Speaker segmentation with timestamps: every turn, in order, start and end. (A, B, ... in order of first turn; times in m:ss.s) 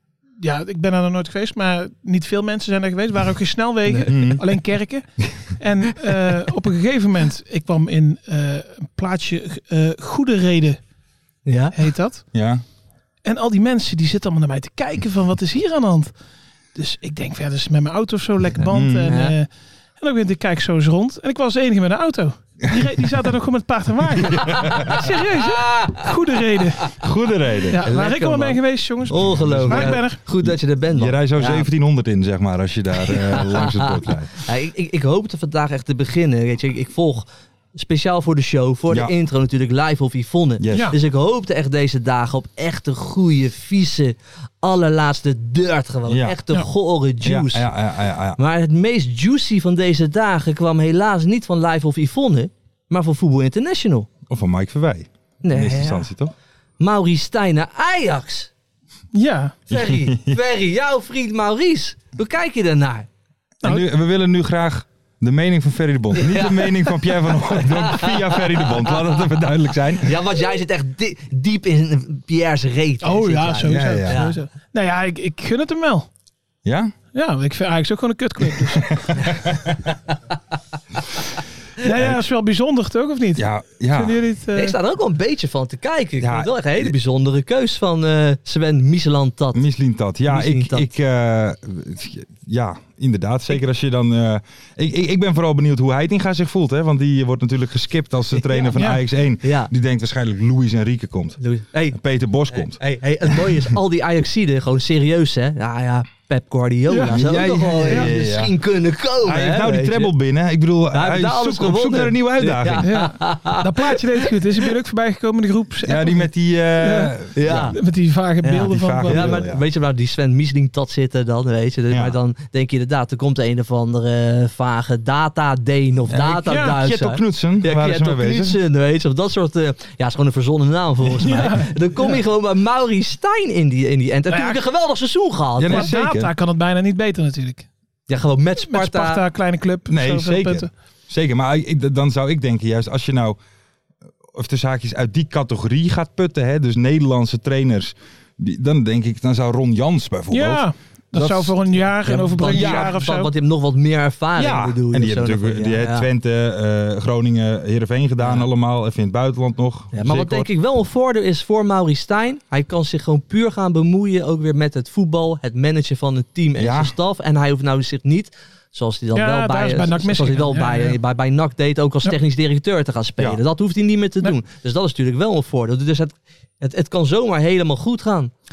0:00.4-0:10.8 A
0:04.0-0:04.4 B
0:11.5-0:11.8 C
0:11.7-0:12.2 A
0:12.3-0:12.6 B
0:13.2-0:16.1 A
0:16.8-0:19.5 A
0:18.7-0:19.1 B
0:19.1-0:19.4 C
0:20.0-0:27.0 A
0:24.2-0:25.0 B
0:24.3-0:26.2 C
0:27.0-0:27.8 B
0:27.7-0:30.2 A
0:27.8-0:31.7 C
0:29.1-0:34.4 B
0:33.0-0:47.7 C
0:40.6-0:41.0 B
0:46.1-0:46.4 B
0:47.2-0:48.4 B
0:48.4-0:54.1 C
0:54.3-0:56.3 B
0:55.4-0:56.1 C
0:56.8-0:58.5 C
0:59.1-0:59.6 A
0:59.7-1:03.1 C
0:59.7-1:00.4 B
1:03.6-1:10.2 B
1:06.1-1:09.1 C
1:10.0-1:14.4 C
1:13.0-1:16.1 A
1:13.6-1:14.2 B
1:16.6-1:16.9 B
1:17.1-1:19.1 A
1:18.6-1:19.9 B
1:21.8-1:24.8 A
1:21.9-1:22.2 B
1:23.4-1:24.2 B
1:24.6-1:29.7 C
1:26.2-1:26.9 B
1:29.5-1:41.4 B
1:30.3-1:30.9 C
1:38.7-1:39.0 A
1:39.4-1:39.7 C
1:41.4-1:42.0 C
1:41.9-1:43.7 B
1:42.5-1:50.1 C
1:46.9-1:47.2 A
1:47.1-1:48.5 B
1:47.8-1:48.1 A
1:49.2-1:52.9 B
1:50.9-1:54.3 C
1:52.7-1:57.1 A
1:55.8-1:57.8 B
1:57.4-1:57.8 C
1:57.7-1:59.5 A
1:58.4-2:15.9 C
1:58.6-1:59.6 B
2:01.9-2:02.2 B
2:06.1-2:08.6 B
2:06.5-2:06.8 A
2:11.2-2:12.2 A
2:14.3-2:14.6 A
2:15.6-2:16.3 B
2:15.7-2:17.7 A
2:18.1-2:19.2 C
2:18.6-2:20.7 A
2:19.9-2:23.4 B
2:24.3-2:31.6 B
2:30.3-2:33.3 A
2:32.0-2:36.1 C
2:32.5-2:33.0 B
2:34.4-2:40.5 B
2:39.9-2:58.3 C
2:46.6-2:46.9 B
2:49.1-2:51.0 A